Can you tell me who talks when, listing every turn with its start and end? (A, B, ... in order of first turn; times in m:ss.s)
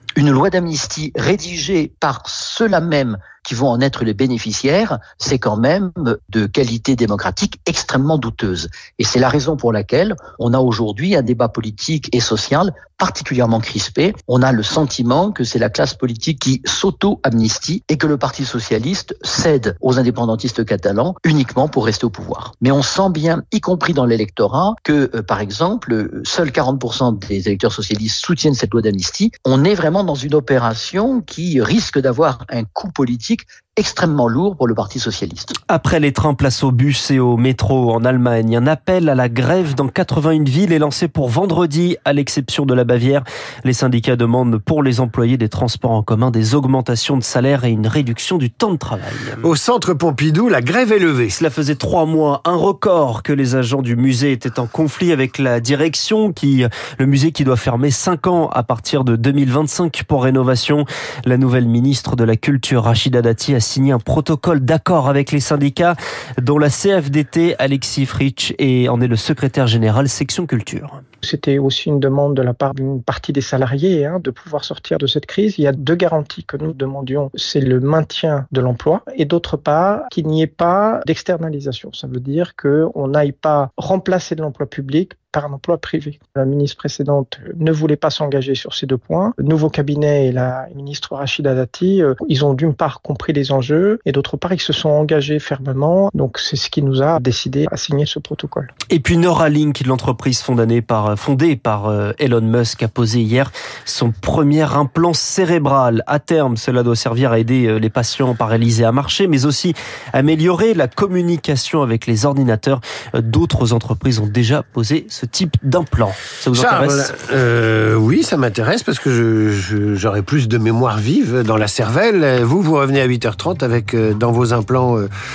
0:00.2-0:35.5 A
0:35.7-0:49.5 B
0:49.4-0:51.4 C
0:51.3-1:11.0 B
1:11.2-1:38.7 D
1:38.9-1:57.1 B
1:56.5-2:05.1 C